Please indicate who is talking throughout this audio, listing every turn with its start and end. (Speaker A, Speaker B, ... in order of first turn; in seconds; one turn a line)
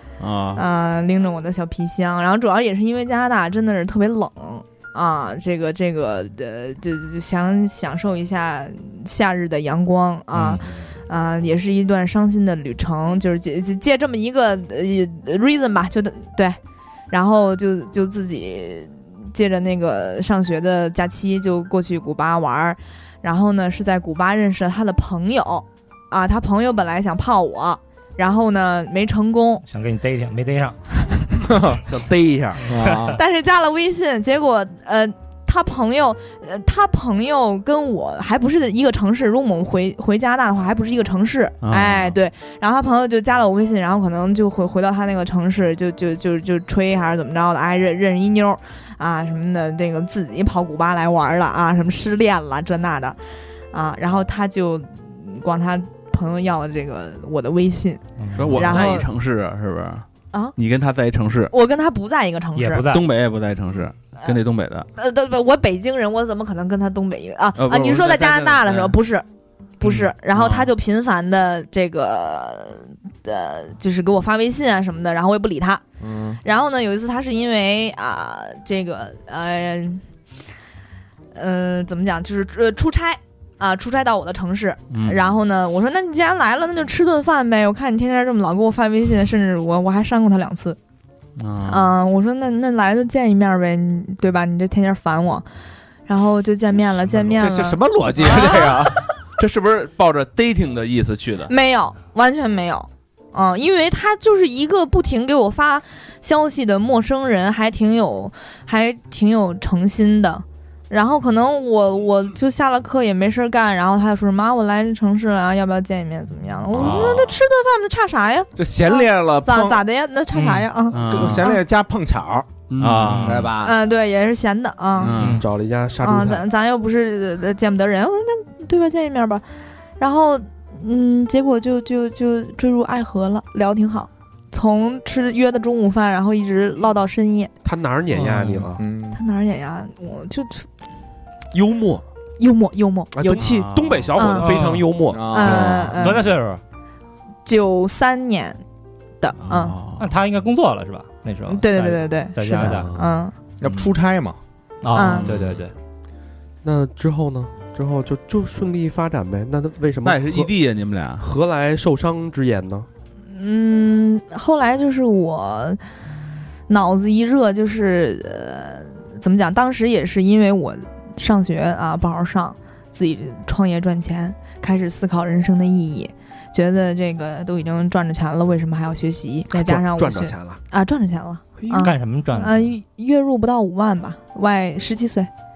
Speaker A: 0.2-0.6
Speaker B: 0.5-16.6
Speaker B: 17.1-29.6
Speaker C: 29.6-30.8
Speaker D: 31.4-31.8
Speaker E: 31.8-32.7
Speaker D: 32.6-33.2
Speaker B: 33.0-53.2
Speaker A: 41.6-42.2
Speaker B: 53.7-59.1
Speaker C: 58.2-58.8
Speaker A: 58.4-61.5
Speaker B: 61.5-62.9
Speaker C: 62.5-63.1
Speaker A: 62.9-64.9
Speaker B: 65.0-69.2
Speaker A: 67.6-69.0
Speaker B: 69.8-75.8
Speaker A: 70.3-70.7
Speaker D: 76.0-76.4
Speaker B: 76.4-80.0
Speaker B: 81.3-90.8
Speaker A: 84.9-85.3
Speaker A: 91.4-91.9
Speaker B: 91.6-95.5
Speaker B: 96.1-98.8
Speaker D: 97.3-99.0
Speaker A: 99.4-101.5
Speaker B: 101.5-121.6
Speaker A: 116.8-117.3
Speaker D: 118.5-119.8
Speaker C: 120.3-120.7
Speaker A: 120.9-121.5
Speaker D: 121.0-122.5
Speaker E: 122.7-123.4
Speaker A: 122.8-123.5
Speaker D: 123.2-123.7
Speaker B: 123.6-125.2
Speaker A: 125.0-125.5
Speaker C: 125.1-125.5
Speaker E: 125.3-126.4
Speaker B: 126.0-129.4
Speaker B: 130.0-137.5
Speaker E: 137.6-138.8
Speaker A: 138.1-138.7
Speaker D: 138.8-139.2
Speaker B: 139.1-140.7
Speaker E: 141.5-142.0
Speaker B: 142.4-144.7
Speaker E: 143.1-145.9
Speaker A: 143.4-144.1
Speaker C: 144.3-146.6
Speaker D: 145.1-145.9
Speaker B: 145.3-146.3
Speaker B: 147.4-148.6
Speaker B: 149.2-149.8
Speaker A: 149.4-150.1
Speaker C: 150.0-152.9
Speaker B: 151.5-153.3
Speaker E: 152.6-153.1
Speaker D: 153.6-154.4
Speaker C: 154.8-155.7
Speaker B: 154.9-155.3
Speaker A: 155.2-155.6
Speaker E: 156.6-160.5
Speaker A: 160.0-161.3
Speaker E: 161.2-162.9
Speaker B: 163.3-165.8
Speaker B: 166.7-185.3
Speaker E: 179.5-180.6
Speaker E: 181.6-182.0
Speaker C: 181.8-182.7